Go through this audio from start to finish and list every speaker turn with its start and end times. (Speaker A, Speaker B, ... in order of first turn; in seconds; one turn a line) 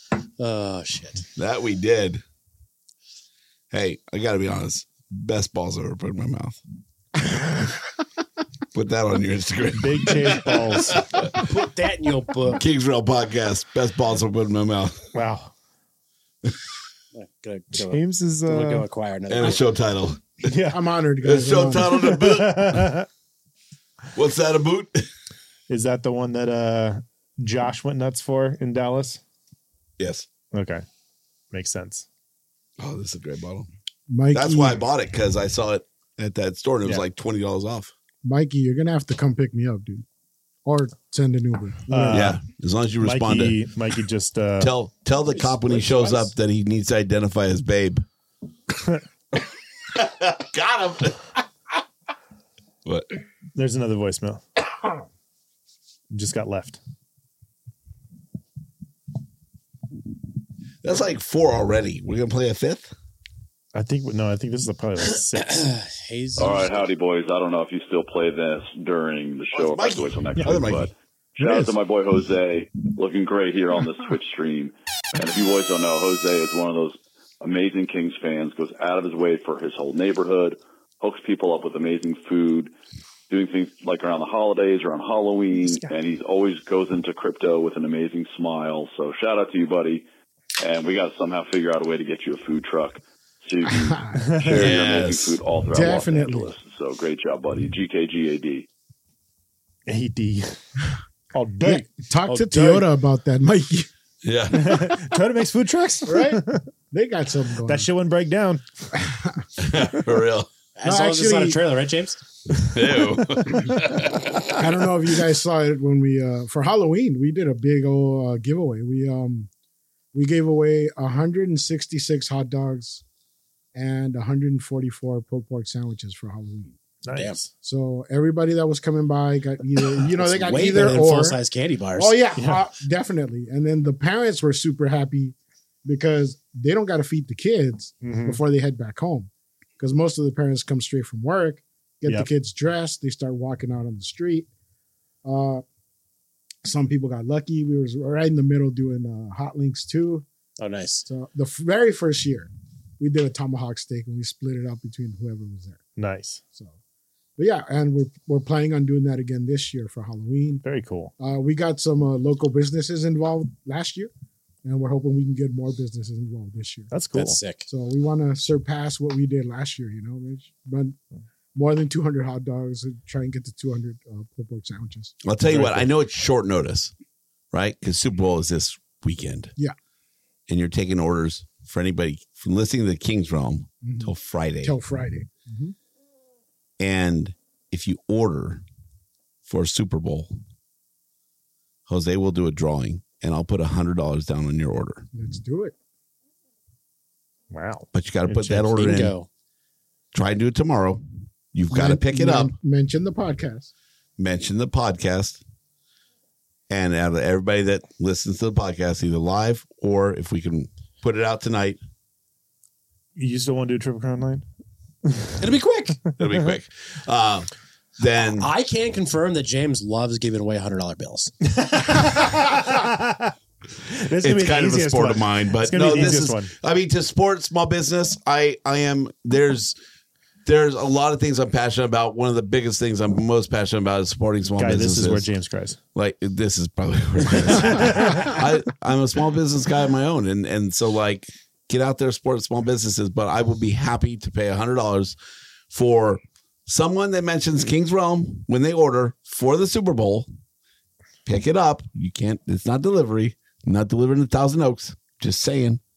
Speaker A: 0.4-1.2
Speaker B: 1.4-2.2
Speaker B: 3.7-6.6
Speaker B: 8.7-11.5
Speaker C: 9.7-11.0
Speaker A: 11.3-12.6
Speaker B: 12.5-15.0
Speaker C: 15.1-15.5
Speaker A: 17.1-19.6
Speaker C: 17.8-18.9
Speaker B: 19.3-20.5
Speaker C: 20.4-20.8
Speaker D: 20.7-22.2
Speaker B: 21.2-23.0
Speaker C: 21.9-23.1
Speaker B: 24.1-25.1
Speaker C: 25.7-29.2
Speaker B: 30.0-30.3
Speaker C: 30.5-30.8
Speaker C: 31.5-32.0
Speaker B: 32.8-33.7
Speaker D: 34.1-34.8
Speaker B: 34.3-37.9
Speaker D: 38.2-40.0
Speaker D: 40.6-42.3
Speaker C: 41.9-42.4
Speaker B: 42.1-43.6
Speaker C: 43.0-44.7
Speaker B: 44.6-48.0
Speaker A: 45.3-46.3
Speaker B: 49.9-51.4
Speaker C: 53.5-54.4
Speaker C: 56.1-56.8
Speaker B: 60.8-62.9
Speaker C: 63.7-65.7
Speaker A: 65.4-66.8
Speaker E: 66.4-82.7
Speaker B: 69.5-70.9
Speaker C: 70.4-70.7
Speaker D: 71.4-71.7
Speaker E: 83.3-90.0
Speaker E: 90.6-98.7
Speaker D: 93.7-94.7
Speaker C: 94.1-94.6
Speaker B: 94.5-95.4
Speaker D: 95.7-96.5
Speaker C: 99.9-100.7
Speaker C: 101.3-101.9
Speaker D: 101.6-103.9
Speaker A: 102.2-102.9
Speaker B: 104.2-105.0
Speaker C: 104.5-106.6
Speaker D: 106.1-107.9
Speaker C: 107.6-108.6
Speaker D: 109.0-109.4
Speaker B: 109.6-110.5
Speaker A: 110.8-112.2
Speaker D: 110.8-111.8
Speaker B: 112.5-114.7
Speaker D: 114.5-119.5
Speaker D: 120.1-123.0
Speaker D: 123.7-126.8
Speaker C: 127.0-127.5
Speaker D: 127.6-131.4
Speaker A: 130.2-132.2
Speaker D: 131.9-144.5
Speaker C: 132.4-132.6
Speaker C: 138.0-138.4
Speaker D: 145.2-145.6
Speaker D: 146.6-150.2
Speaker A: 150.6-151.1
Speaker D: 151.1-155.8
Speaker C: 156.0-156.4
Speaker D: 157.4-160.6
Speaker C: 160.6-161.1
Speaker D: 161.2-164.1
Speaker D: 164.6-166.9
Speaker C: 166.9-167.4
Speaker A: 167.1-167.7
Speaker D: 167.7-171.0
Speaker D: 171.5-175.1
Speaker B: 175.2-176.9
Speaker C: 175.5-175.9
Speaker B: 177.5-179.5
Speaker B: 180.5-184.7
Speaker D: 183.8-185.7
Speaker B: 186.8-188.6
Speaker B: 189.4-190.3
Speaker B: 191.9-195.1
Speaker D: 195.1-195.7
Speaker C: 197.5-198.9
Speaker B: 197.9-199.2
Speaker A: 198.8-199.3
Speaker B: 200.1-202.5
Speaker D: 201.7-203.7
Speaker B: 204.2-205.4
Speaker B: 206.7-211.8
Speaker C: 213.2-214.4
Speaker C: 215.1-215.5
Speaker A: 215.4-216.0
Speaker B: 216.2-218.5
Speaker A: 218.2-221.3
Speaker C: 221.5-223.3
Speaker C: 224.0-226.5
Speaker B: 224.2-229.8
Speaker B: 230.4-235.3
Speaker C: 234.6-235.8
Speaker B: 235.9-245.2
Speaker C: 237.6-238.2
Speaker B: 245.7-250.3
Speaker B: 251.2-255.8